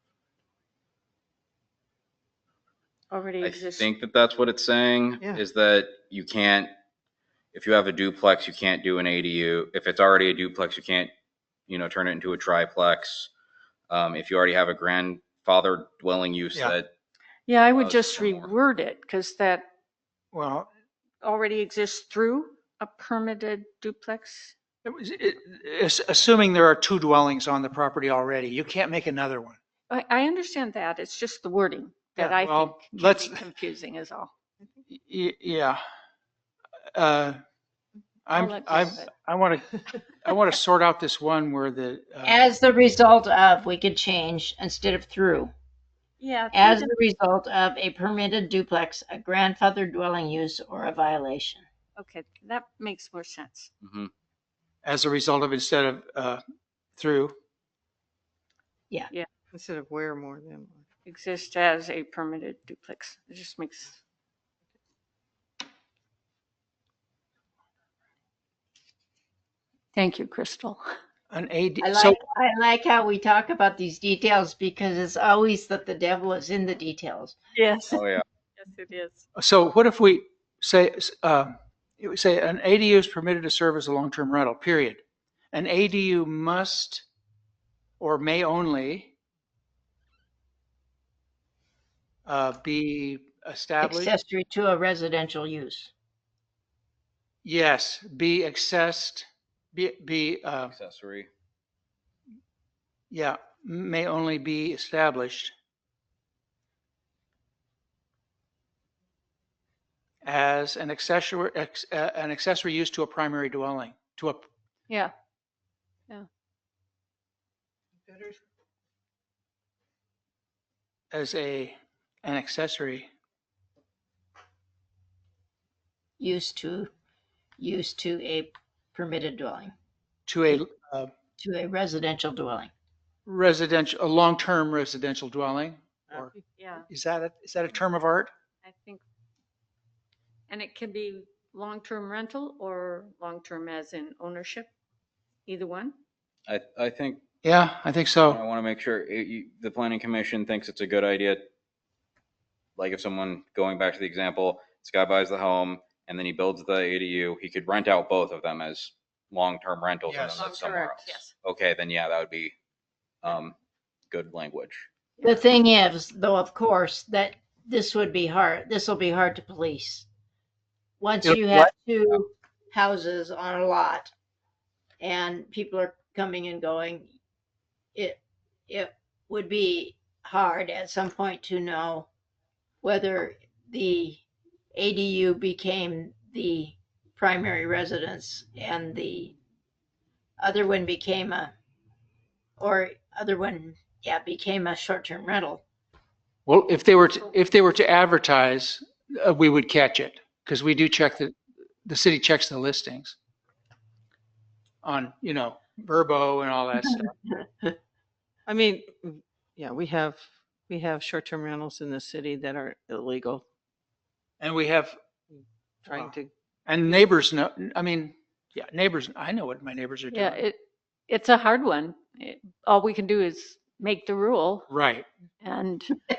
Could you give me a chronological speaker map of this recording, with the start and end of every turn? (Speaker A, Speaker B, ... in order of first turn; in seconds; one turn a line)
Speaker A: 3.1-3.9
Speaker B: 3.4-6.7
Speaker B: 7.5-11.1
Speaker B: 11.7-13.3
Speaker B: 13.9-16.9
Speaker A: 17.5-19.7
Speaker B: 17.7-18.5
Speaker C: 20.3-20.7
Speaker A: 21.2-24.5
Speaker C: 24.8-29.6
Speaker A: 29.9-34.3
Speaker C: 32.2-33.4
Speaker C: 34.9-35.8
Speaker C: 36.9-37.4
Speaker C: 38.3-42.5
Speaker A: 38.3-39.1
Speaker D: 42.2-45.5
Speaker A: 46.2-46.9
Speaker D: 46.5-51.6
Speaker A: 52.0-53.7
Speaker B: 53.8-54.1
Speaker C: 54.8-56.4
Speaker C: 57.0-57.4
Speaker E: 59.5-60.8
Speaker A: 61.0-64.0
Speaker A: 69.9-70.8
Speaker C: 71.3-72.2
Speaker D: 71.8-77.3
Speaker A: 77.5-78.0
Speaker B: 77.9-78.2
Speaker A: 78.6-79.2
Speaker C: 79.3-85.0
Speaker C: 85.5-87.0
Speaker C: 88.0-89.1
Speaker C: 92.2-94.1
Speaker D: 93.8-95.9
Speaker C: 97.4-100.7
Speaker B: 100.7-101.3
Speaker C: 103.1-105.5
Speaker C: 110.2-114.5
Speaker E: 118.1-118.3
Speaker C: 121.1-123.1
Speaker D: 126.2-126.9
Speaker D: 127.6-129.7
Speaker C: 130.3-131.1
Speaker D: 131.4-132.7
Speaker C: 133.2-136.3
Speaker E: 136.1-136.4
Speaker A: 136.6-136.9
Speaker C: 136.9-138.3
Speaker A: 138.6-139.0
Speaker A: 140.5-144.7
Speaker A: 145.4-145.9
Speaker B: 146.5-147.2
Speaker C: 147.4-148.4
Speaker B: 148.2-151.5
Speaker B: 152.8-162.5
Speaker C: 160.1-160.4
Speaker A: 160.4-161.3
Speaker E: 160.4-160.9
Speaker B: 163.2-163.6
Speaker B: 164.1-164.9
Speaker D: 165.2-170.1
Speaker D: 171.0-174.1
Speaker C: 171.2-171.7
Speaker D: 175.0-177.1
Speaker D: 177.9-182.1
Speaker D: 182.8-184.2
Speaker D: 184.7-189.3
Speaker D: 190.4-191.5
Speaker D: 192.6-195.6
Speaker C: 196.4-201.3
Speaker C: 201.8-203.2
Speaker C: 204.8-207.1
Speaker E: 208.5-213.4
Speaker C: 214.4-215.0
Speaker E: 215.3-216.3
Speaker C: 216.7-220.4
Speaker A: 220.1-224.7
Speaker C: 224.7-225.1
Speaker A: 225.4-226.0